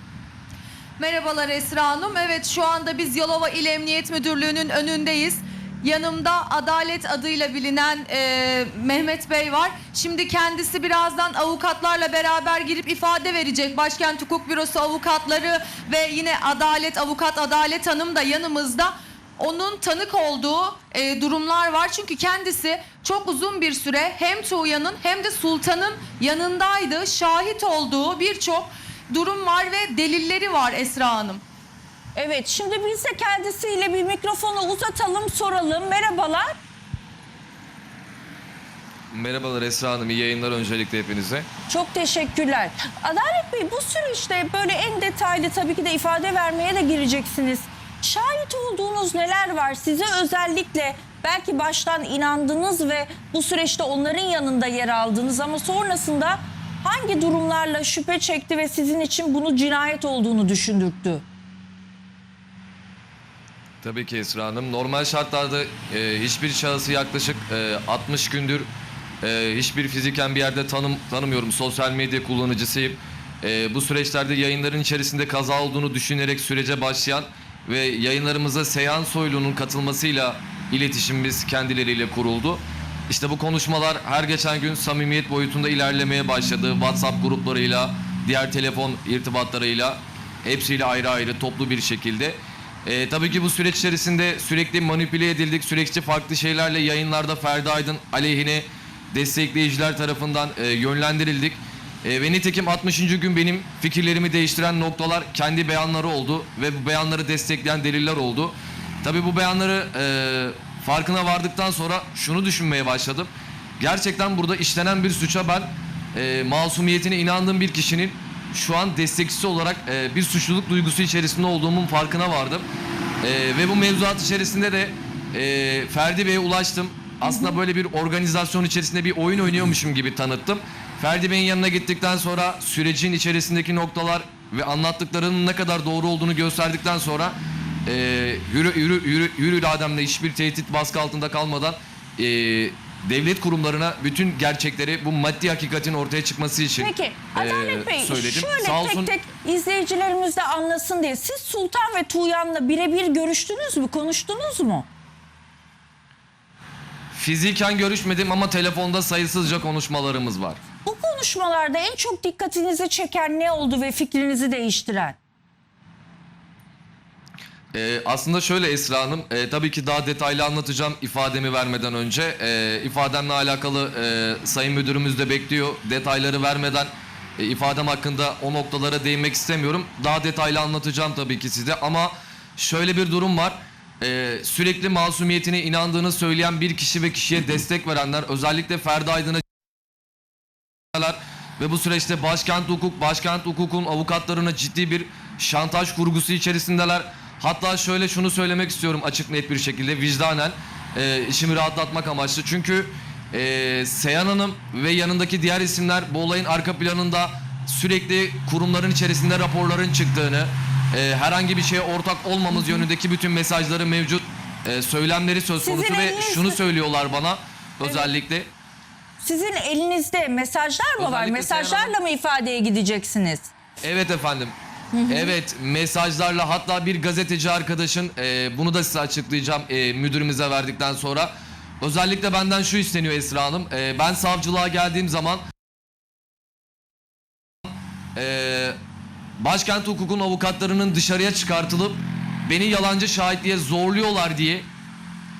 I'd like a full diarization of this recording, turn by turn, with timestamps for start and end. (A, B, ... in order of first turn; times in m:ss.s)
0:01.0-0:31.4 A
0:32.2-0:36.6 B
0:39.1-0:41.5 C
0:41.7-1:01.2 B
1:03.8-1:08.7 C
1:09.2-2:02.6 C
2:03.2-2:17.4 C
2:07.2-2:07.6 B
2:17.9-2:29.1 C
2:26.8-2:34.9 B
2:37.1-2:40.6 C
2:40.8-2:45.2 B
2:47.7-3:09.4 C
3:10.9-3:38.5 C
3:32.5-3:32.8 B
3:35.6-3:36.6 B
3:37.8-3:38.1 B
3:39.2-3:43.5 B
3:41.0-3:42.0 C
3:43.8-3:44.5 C
3:44.9-3:45.4 B
3:45.1-3:55.4 C
3:58.2-3:58.8 C
3:59.4-4:04.7 C